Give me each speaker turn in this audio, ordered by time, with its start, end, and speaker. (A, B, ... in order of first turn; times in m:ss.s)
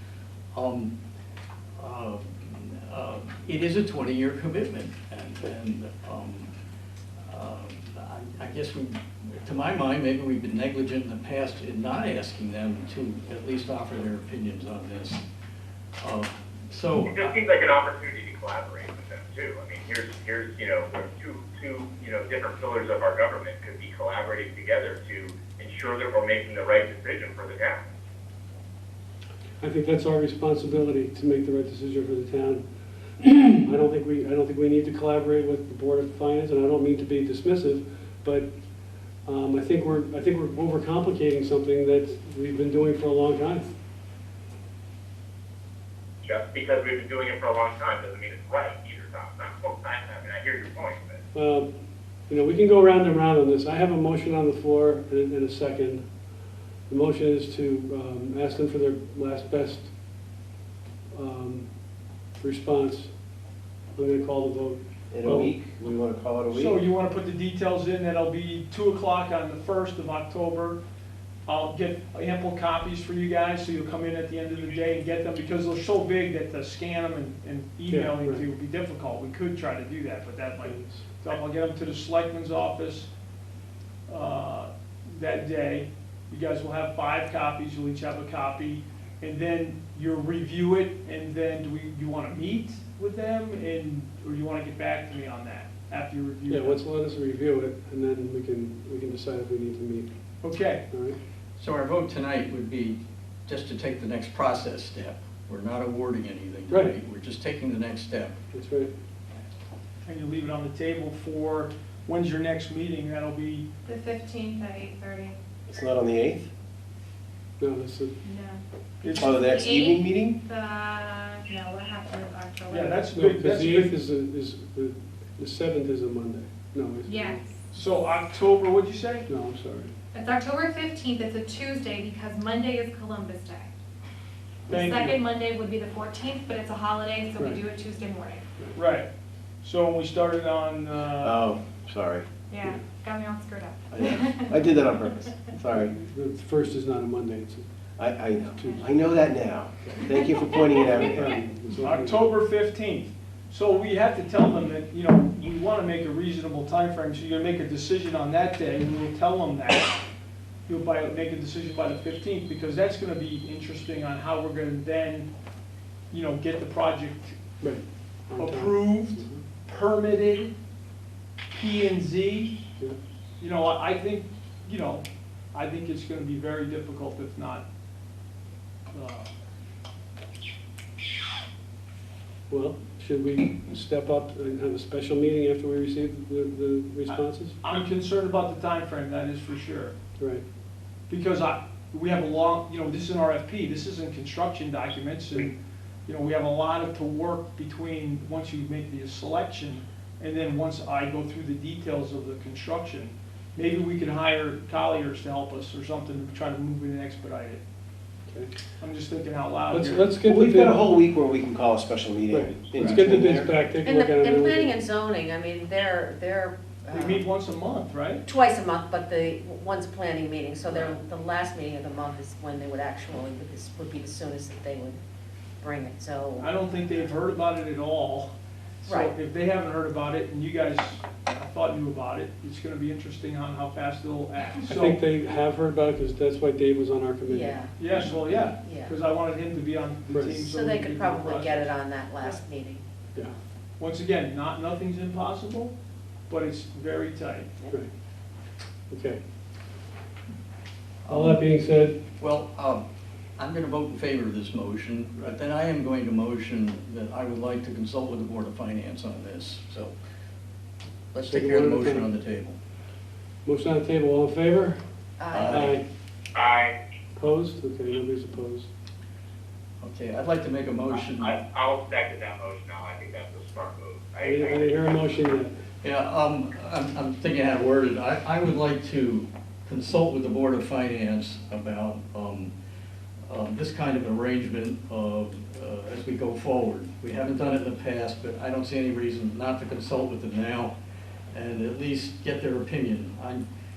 0:00.5-0:00.9 A
0:01.8-0:06.5 A
0:07.3-0:15.2 A
0:16.0-0:17.4 A
0:17.1-0:27.8 B
0:29.6-0:32.6 C
0:33.2-0:38.5 C
0:39.2-0:43.7 C
0:46.2-0:51.2 B
0:51.3-0:51.7 C
0:52.3-0:56.0 C
0:56.9-0:59.9 C
1:01.1-1:01.7 C
1:02.4-1:03.1 C
1:04.0-1:05.6 C
1:05.1-1:06.8 D
1:06.5-1:10.8 E
1:11.5-1:23.1 E
1:17.9-1:18.4 C
1:20.6-1:21.0 C
1:24.1-1:36.8 E
1:36.5-1:40.1 C
1:40.4-1:40.8 E
1:40.9-1:41.2 C
1:41.6-1:48.4 A
1:46.7-1:47.0 C
1:48.5-1:48.9 C
1:50.0-1:53.7 E
1:53.9-1:55.4 F
1:55.7-1:56.5 D
1:57.6-1:58.2 C
1:58.2-2:03.0 F
1:59.0-1:59.4 E
1:59.2-2:00.4 D
2:02.7-2:03.9 E
2:03.1-2:07.4 C
2:07.1-2:07.6 F
2:07.7-2:09.3 E
2:09.3-2:09.9 C
2:10.1-2:13.7 F
2:14.7-2:15.2 E
2:14.7-2:18.4 F
2:17.4-2:17.6 C
2:18.8-2:19.1 E
2:19.6-2:21.4 E
2:21.2-2:22.3 D
2:22.5-2:24.6 F
2:23.9-2:25.9 D
2:25.8-2:27.7 C
2:28.0-2:31.4 D
2:28.5-2:28.9 C
2:28.6-2:28.9 F
2:30.1-2:31.3 F
2:31.0-2:32.2 C
2:31.8-2:40.0 E
2:40.7-2:45.3 E
2:46.1-2:47.4 E
2:47.6-2:49.4 C
2:48.4-2:50.5 E
2:51.6-2:52.6 E
2:53.4-2:57.6 E
2:58.9-2:59.3 E
3:02.5-3:07.6 C
3:07.1-3:09.9 E
3:10.2-3:10.4 C
3:11.1-3:15.6 E
3:16.1-3:27.6 E
3:28.8-3:30.1 E
3:29.7-3:30.8 C
3:30.2-3:33.6 D
3:32.3-3:34.8 C
3:32.8-3:33.1 E
3:33.8-3:37.2 G
3:36.9-3:38.3 E
3:38.2-3:45.0 G
3:40.7-3:41.0 E
3:45.6-3:46.5 G
3:46.4-3:48.3 E
3:48.8-3:55.0 E
3:48.9-3:49.1 G
3:54.6-3:57.6 C
3:57.3-3:59.0 G
3:57.8-4:02.4 E
4:00.1-4:00.4 C
4:00.3-4:02.8 G
4:03.8-4:05.7 E
4:06.3-4:07.5 E
4:08.9-4:09.2 C
4:11.0-4:11.4 A
4:11.1-4:12.0 C
4:12.2-4:12.8 A
4:13.4-4:19.9 A
4:21.1-4:22.6 A
4:21.3-4:22.1 C
4:23.4-4:24.8 C
4:25.2-4:25.7 G
4:25.3-4:25.8 A
4:25.5-4:25.8 C
4:26.4-4:26.8 B
4:27.2-4:28.7 C
4:29.8-4:31.4 A
4:30.9-4:34.8 B
4:34.2-4:35.6 C
4:35.8-4:42.5 A
4:43.3-4:50.8 A
4:51.3-4:53.4 A